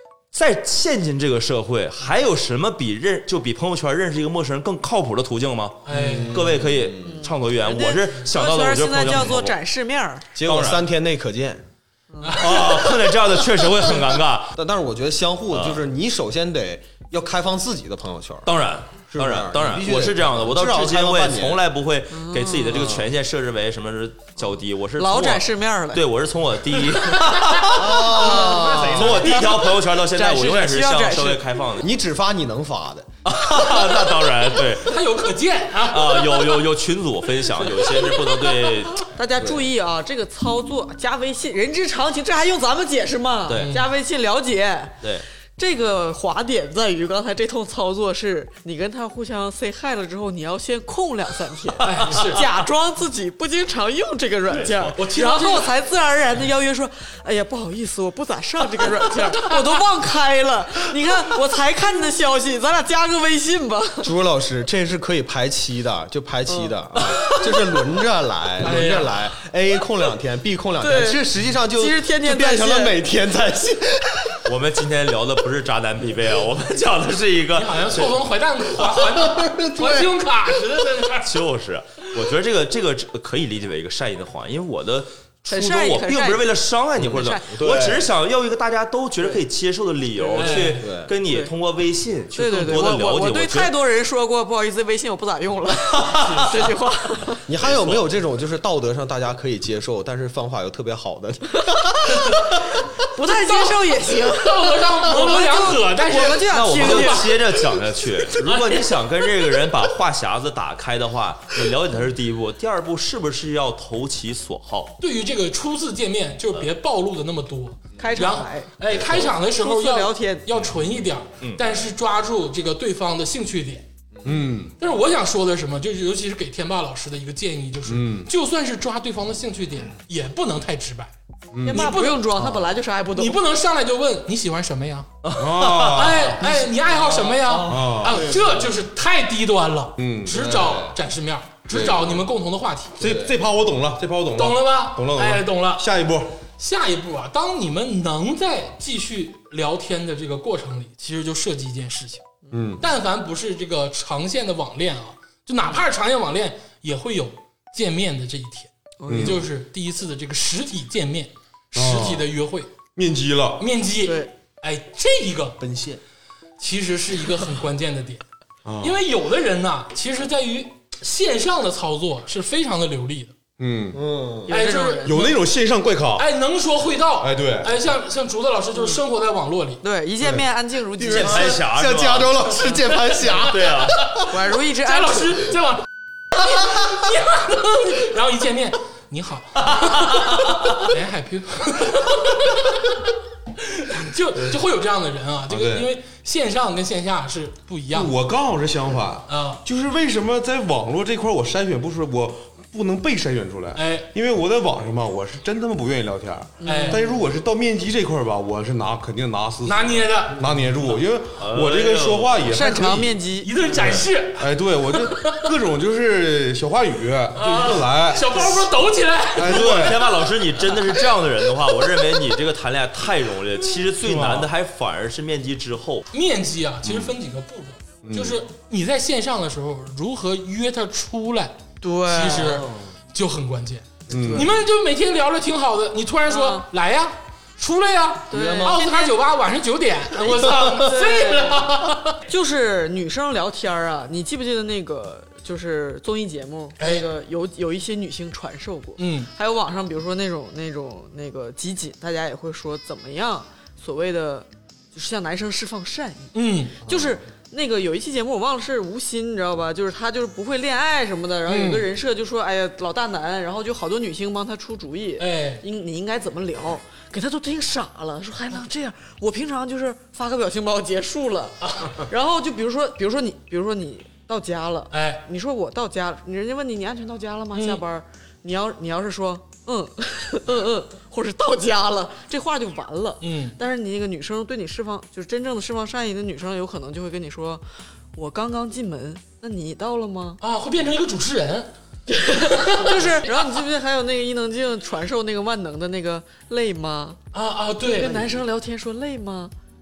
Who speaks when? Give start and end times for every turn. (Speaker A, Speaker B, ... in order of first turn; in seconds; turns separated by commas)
Speaker A: 0.3-9.6, Speaker B: 5.8-6.4, Speaker C: 5.9-7.2, Speaker D: 7.1-10.3, Speaker C: 10.3-11.6, Speaker A: 10.4-10.8, Speaker D: 12.1-12.7, Speaker B: 12.2-12.8, Speaker A: 12.4-14.5, Speaker C: 14.6-18.5, Speaker A: 15.5-15.8, Speaker A: 18.4-31.9, Speaker C: 19.1-21.6, Speaker D: 22.1-22.9, Speaker C: 22.7-23.1, Speaker D: 25.0-26.0, Speaker B: 27.1-27.6, Speaker C: 27.7-29.4, Speaker D: 28.0-31.4, Speaker C: 31.8-33.1, Speaker A: 33.2-35.0, Speaker B: 34.8-36.5, Speaker A: 35.9-39.0, Speaker D: 39.1-45.0, Speaker C: 39.4-39.7, Speaker A: 43.5-43.8, Speaker B: 43.5-43.9, Speaker D: 45.6-64.1, Speaker B: 51.8-52.4, Speaker A: 54.5-54.9, Speaker B: 55.0-55.7, Speaker C: 64.0-74.4, Speaker D: 66.5-66.8, Speaker B: 68.6-69.2, Speaker D: 70.8-73.0, Speaker A: 74.4-78.2, Speaker B: 77.5-81.3, Speaker C: 78.8-80.1, Speaker A: 81.2-93.8, Speaker D: 85.5-87.6, Speaker C: 87.0-88.1, Speaker D: 90.2-90.6, Speaker B: 90.3-90.8, Speaker C: 90.7-91.1, Speaker D: 91.2-91.5, Speaker D: 92.3-97.4, Speaker B: 96.2-96.5, Speaker C: 97.5-102.4, Speaker A: 97.6-98.1, Speaker D: 103.1-107.4, Speaker B: 103.3-103.8, Speaker B: 104.3-107.3, Speaker A: 106.5-115.0, Speaker B: 108.4-108.8, Speaker B: 115.0-123.9, Speaker D: 118.0-120.5, Speaker C: 124.2-124.4, Speaker E: 124.2-124.7, Speaker B: 124.8-131.1, Speaker E: 127.8-128.3, Speaker E: 131.5-131.9, Speaker D: 131.6-133.4, Speaker B: 131.7-132.2, Speaker B: 133.1-135.1, Speaker A: 135.2-136.2, Speaker E: 135.4-136.4, Speaker B: 135.9-143.0, Speaker C: 136.9-138.7, Speaker E: 137.7-138.2, Speaker E: 140.0-140.3, Speaker C: 140.3-140.9, Speaker C: 141.7-142.2, Speaker C: 143.0-143.3, Speaker E: 143.0-146.3, Speaker B: 144.3-145.8, Speaker B: 146.6-152.2, Speaker E: 152.5-152.8, Speaker B: 152.8-162.7, Speaker D: 159.0-159.5, Speaker E: 159.1-159.4, Speaker E: 161.7-162.3, Speaker E: 162.9-163.6, Speaker B: 163.6-165.6, Speaker D: 164.0-164.3, Speaker C: 165.6-166.0, Speaker B: 166.6-168.2, Speaker E: 168.6-169.0, Speaker B: 168.8-173.3, Speaker E: 173.6-174.0, Speaker C: 173.9-174.6, Speaker D: 174.5-175.3, Speaker B: 174.5-175.3, Speaker E: 175.0-176.3, Speaker B: 176.2-179.8, Speaker E: 177.2-177.7, Speaker D: 179.8-181.6, Speaker E: 180.2-180.4, Speaker C: 181.0-183.7, Speaker A: 181.1-182.6, Speaker B: 183.2-184.3, Speaker A: 183.3-184.0, Speaker D: 184.3-185.5, Speaker B: 184.8-185.8, Speaker B: 186.4-193.0, Speaker B: 193.6-198.1, Speaker E: 195.5-195.9, Speaker E: 197.9-213.2, Speaker B: 199.3-199.6, Speaker B: 203.7-204.1, Speaker D: 206.6-207.2, Speaker B: 206.6-207.0, Speaker B: 209.6-210.4, Speaker A: 211.4-212.4, Speaker D: 212.4-213.5, Speaker B: 213.4-215.4, Speaker A: 213.8-214.0, Speaker E: 214.4-218.7, Speaker B: 217.3-219.8, Speaker E: 219.3-220.1, Speaker A: 219.4-226.1, Speaker E: 224.0-224.5, Speaker B: 226.1-242.2, Speaker E: 226.8-227.1, Speaker E: 228.0-228.4, Speaker D: 231.8-232.6, Speaker C: 232.3-232.9, Speaker E: 234.1-234.6, Speaker D: 234.2-234.4, Speaker D: 236.3-236.7, Speaker C: 238.3-238.8, Speaker D: 238.3-239.1, Speaker C: 240.3-240.8, Speaker D: 240.7-241.6, Speaker D: 242.3-290.4, Speaker B: 246.8-247.1, Speaker B: 249.0-249.3, Speaker B: 256.3-256.8, Speaker B: 261.5-261.8, Speaker B: 265.2-265.6, Speaker B: 271.6-272.0, Speaker B: 274.9-275.2, Speaker B: 277.5-277.8, Speaker B: 283.2-283.6, Speaker B: 290.4-291.7, Speaker D: 292.1-297.2, Speaker B: 292.3-293.3, Speaker B: 297.3-298.2, Speaker D: 297.8-299.5